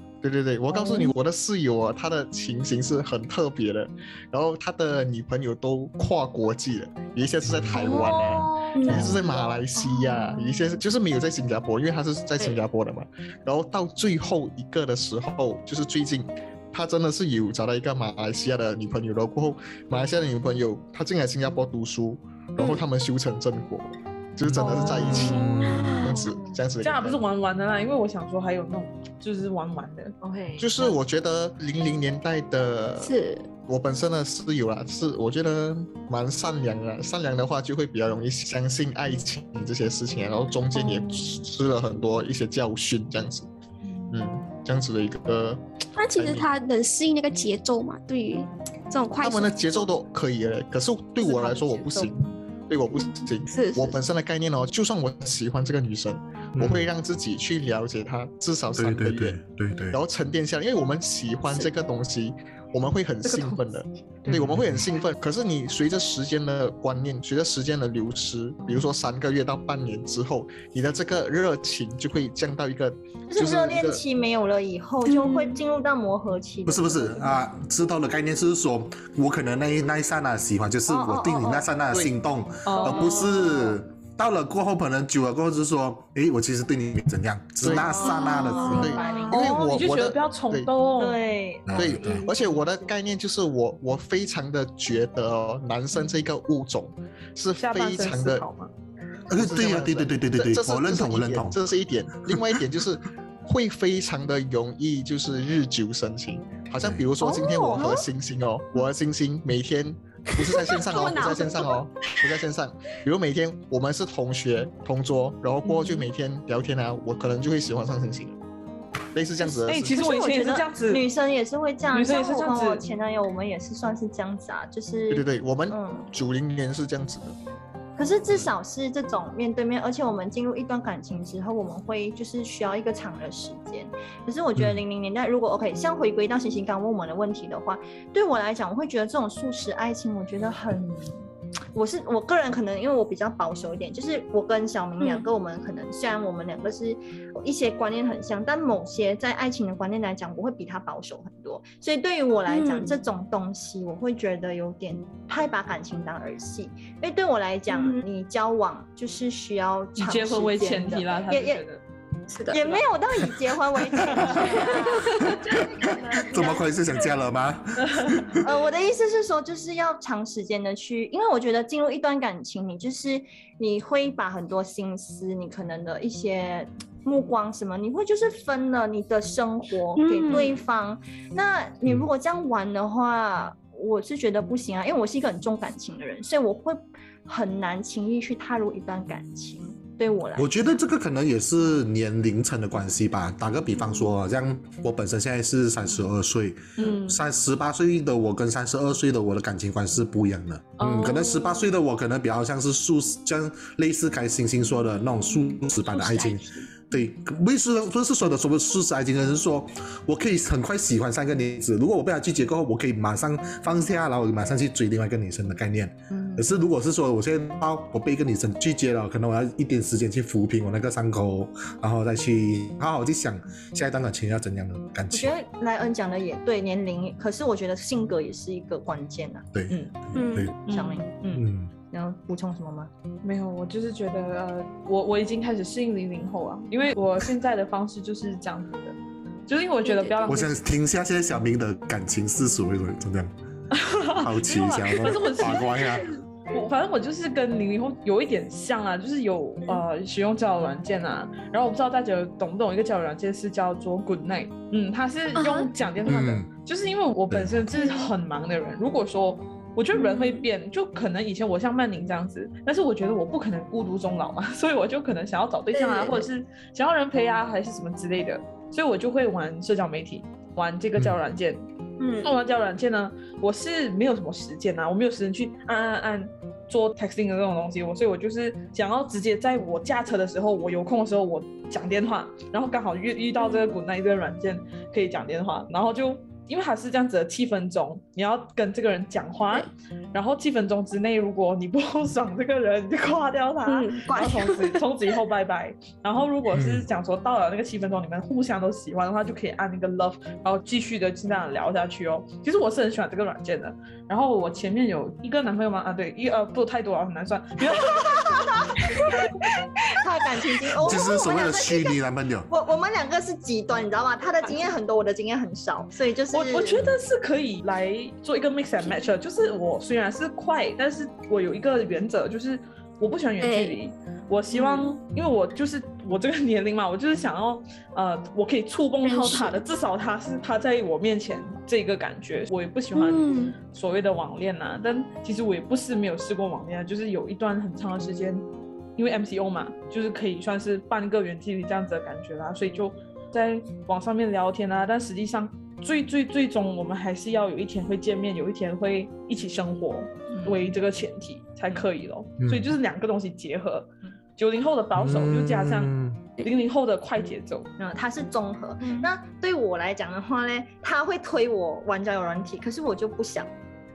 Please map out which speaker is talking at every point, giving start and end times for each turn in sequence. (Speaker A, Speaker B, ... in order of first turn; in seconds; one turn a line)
Speaker A: 0.2-27.2
Speaker B: 7.4-8.0
Speaker C: 7.7-10.6
Speaker D: 8.7-9.2
Speaker B: 8.9-9.2
Speaker B: 24.5-26.1
Speaker E: 24.6-25.5
Speaker D: 25.1-26.3
Speaker E: 26.8-30.1
Speaker C: 30.2-30.8
Speaker A: 30.6-33.1
Speaker D: 33.0-33.5
Speaker A: 33.7-43.5
Speaker A: 44.1-45.6
Speaker D: 46.0-49.9
Speaker A: 46.1-46.5
Speaker A: 49.2-59.4
Speaker E: 51.2-52.3
Speaker D: 53.5-54.0
Speaker B: 56.5-56.9
Speaker B: 58.7-60.0
Speaker A: 59.9-74.0
Speaker E: 63.2-63.6
Speaker B: 64.3-64.8
Speaker C: 73.3-77.3
Speaker B: 76.7-89.0
Speaker C: 80.9-81.7
Speaker E: 82.7-83.3
Speaker C: 82.8-83.7
Speaker A: 87.6-88.1
Speaker C: 87.7-89.6
Speaker D: 88.2-89.3
Speaker E: 88.3-91.3
Speaker A: 88.6-90.7
Speaker C: 91.0-92.6
Speaker B: 91.7-92.3
Speaker A: 91.7-98.5
Speaker E: 97.6-98.7
Speaker B: 99.3-101.6
Speaker A: 99.3-118.4
Speaker B: 102.3-102.5
Speaker B: 106.8-107.1
Speaker E: 107.2-108.0
Speaker D: 110.4-111.8
Speaker E: 115.6-116.0
Speaker A: 119.1-120.1
Speaker E: 119.5-121.1
Speaker D: 119.9-120.6
Speaker C: 120.9-126.1
Speaker E: 121.9-122.8
Speaker A: 125.1-127.4
Speaker C: 128.0-161.6
Speaker D: 145.0-145.2
Speaker D: 152.5-152.9
Speaker D: 157.7-158.0
Speaker E: 160.0-161.8
Speaker D: 162.3-162.8
Speaker C: 162.5-166.7
Speaker B: 164.0-168.5
Speaker D: 164.3-166.6
Speaker E: 167.8-168.3
Speaker C: 168.4-190.7
Speaker D: 179.9-180.6
Speaker B: 190.4-225.3
Speaker E: 196.8-197.2
Speaker E: 200.8-201.7
Speaker D: 206.0-206.4
Speaker C: 216.1-216.5
Speaker C: 225.1-229.5
Speaker B: 229.5-230.6
Speaker E: 229.7-230.0
Speaker D: 230.1-230.5
Speaker E: 230.6-231.4
Speaker C: 230.7-231.1
Speaker B: 231.3-231.7
Speaker C: 231.9-232.9
Speaker E: 233.2-238.9
Speaker E: 239.5-240.6
Speaker D: 239.8-240.2
Speaker B: 240.2-243.3
Speaker E: 243.7-271.6
Speaker B: 244.1-246.1
Speaker D: 245.7-246.1
Speaker D: 255.3-255.7
Speaker B: 256.0-256.5
Speaker B: 257.3-257.7
Speaker D: 257.7-258.0
Speaker D: 259.9-260.4
Speaker D: 265.7-266.2
Speaker D: 272.0-272.3
Speaker E: 272.2-309.3
Speaker D: 283.4-283.7
Speaker D: 293.6-294.8
Speaker B: 296.5-296.9
Speaker C: 308.6-316.9
Speaker B: 310.8-312.5
Speaker E: 316.3-338.4
Speaker D: 323.4-323.8
Speaker D: 329.0-329.6
Speaker D: 332.9-333.6
Speaker E: 338.9-357.7
Speaker C: 350.3-350.6
Speaker B: 352.4-352.7
Speaker B: 355.0-356.2
Speaker C: 357.8-363.5